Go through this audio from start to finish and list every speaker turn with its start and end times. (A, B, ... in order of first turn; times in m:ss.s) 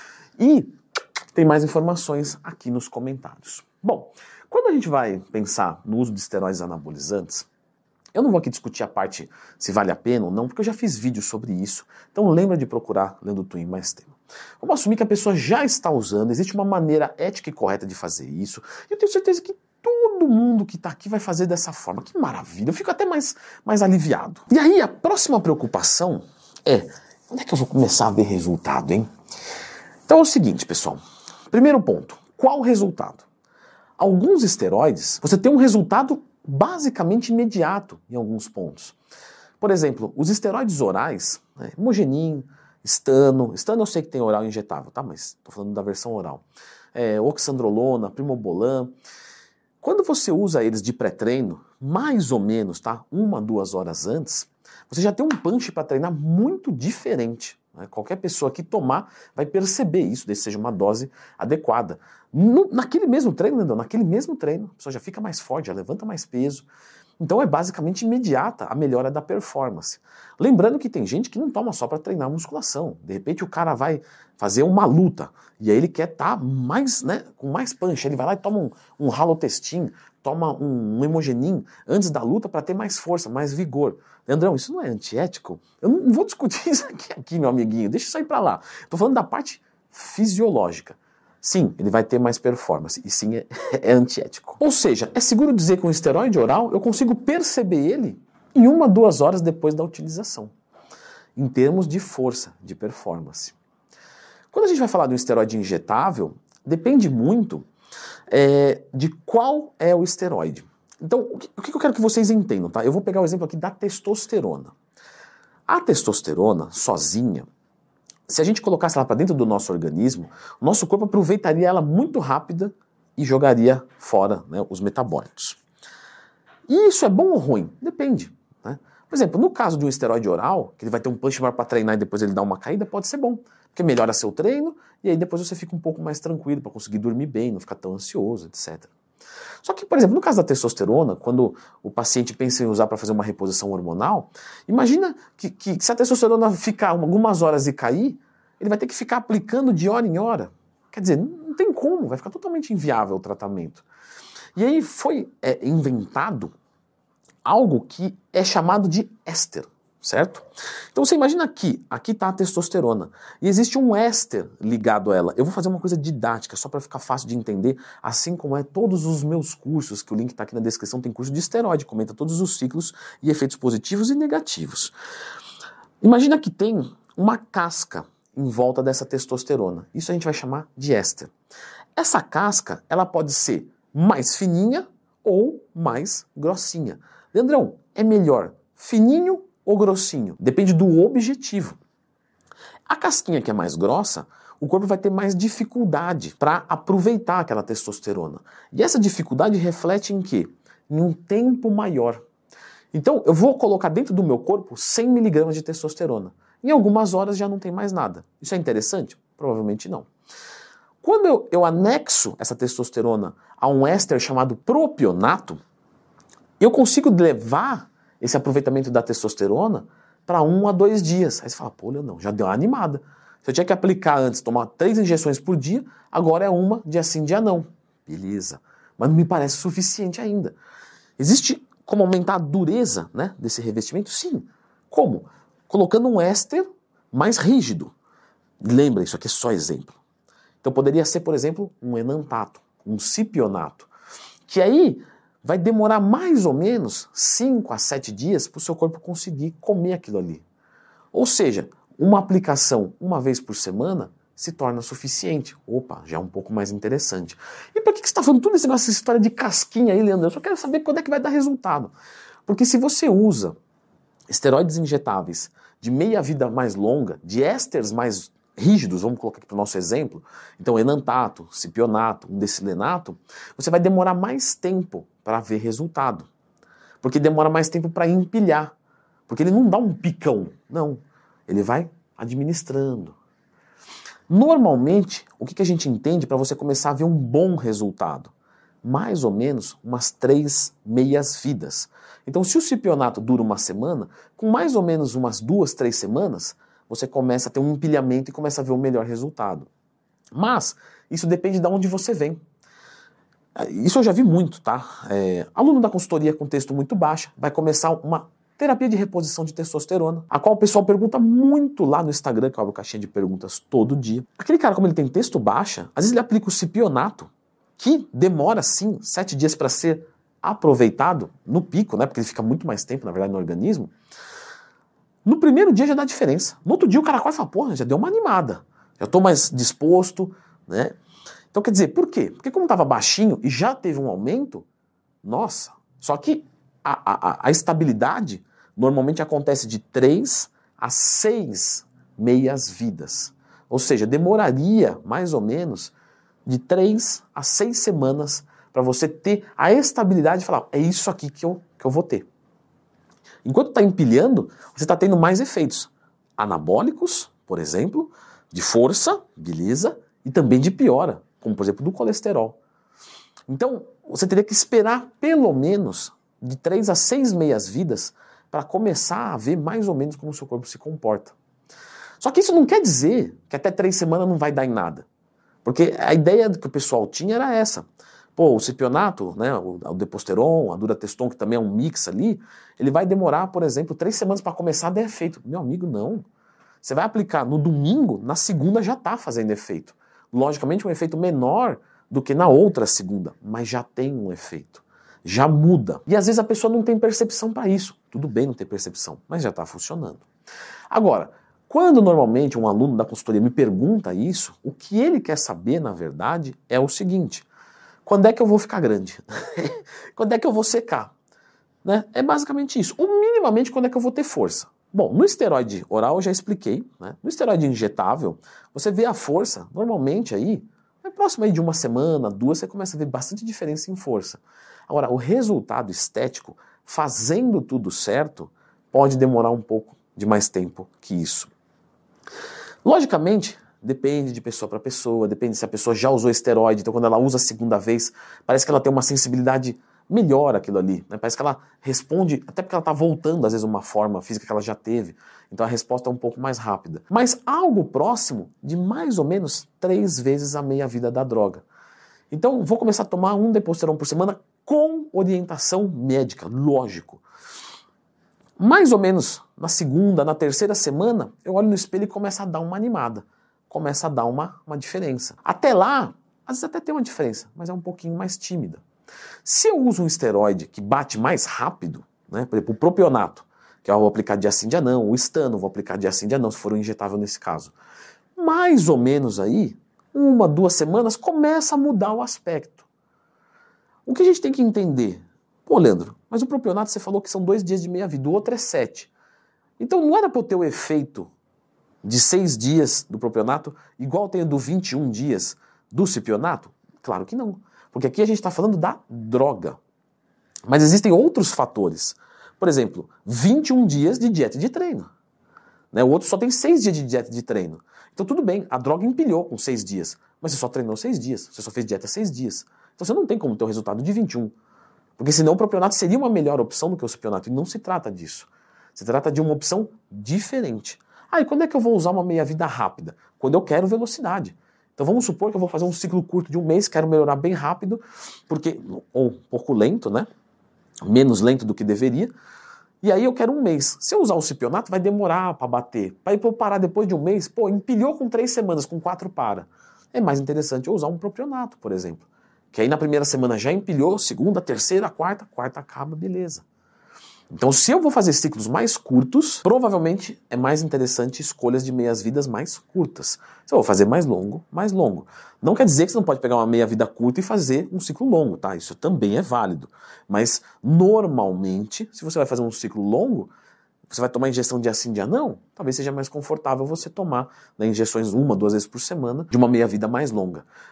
0:00.4-0:00.7 A
0:01.3-0:07.5 A
0:08.1-0:29.1 A
0:30.1-0:31.0 A
0:31.5-0:33.2 A
0:34.0-0:39.0 A
0:39.6-0:48.9 A
0:49.8-1:06.7 A
1:07.2-1:40.5 A
1:41.4-1:43.6 A
1:44.5-1:47.7 A
1:48.3-1:54.7 A
1:55.7-1:57.5 A
1:58.3-2:05.6 A
2:06.7-2:18.9 A
2:19.6-2:33.8 A
2:34.6-2:36.5 A
2:37.4-2:54.9 A
2:56.0-3:01.3 A
3:02.0-3:11.8 A
3:12.9-3:22.2 A
3:22.9-3:30.1 A
3:31.0-3:35.6 A
3:36.6-3:50.5 A
3:51.2-3:57.9 A
3:58.6-4:00.0 A
4:00.6-4:03.9 A
4:04.5-4:10.4 A
4:11.1-4:21.9 A
4:22.4-4:23.6 A
4:24.3-4:36.3 A
4:37.0-4:38.7 A
4:39.3-4:43.2 A
4:44.3-4:48.3 A
4:48.8-4:59.7 A
5:00.3-5:02.4 A
5:03.6-5:23.9 A
5:25.2-5:31.0 A
5:31.5-5:34.6 A
5:35.2-5:45.9 A
5:46.4-5:52.3 A
5:53.4-6:02.6 A
6:03.5-6:11.3 A
6:12.2-6:15.0 A
6:15.6-6:26.2 A
6:26.8-6:40.2 A
6:40.9-6:47.5 A
6:48.0-6:51.1 A
6:51.8-7:11.5 A
7:12.8-7:31.6 A
7:32.3-7:37.2 A
7:38.6-7:48.8 A
7:49.4-7:57.7 A
7:58.4-8:02.8 A
8:04.0-8:09.1 A
8:09.8-8:11.3 A
8:12.0-8:19.8 A
8:20.7-8:25.1 A
8:25.9-8:34.5 A
8:35.2-8:50.3 A
8:51.0-8:52.3 A
8:53.0-9:06.6 A
9:07.5-9:23.5 A
9:24.1-9:30.6 A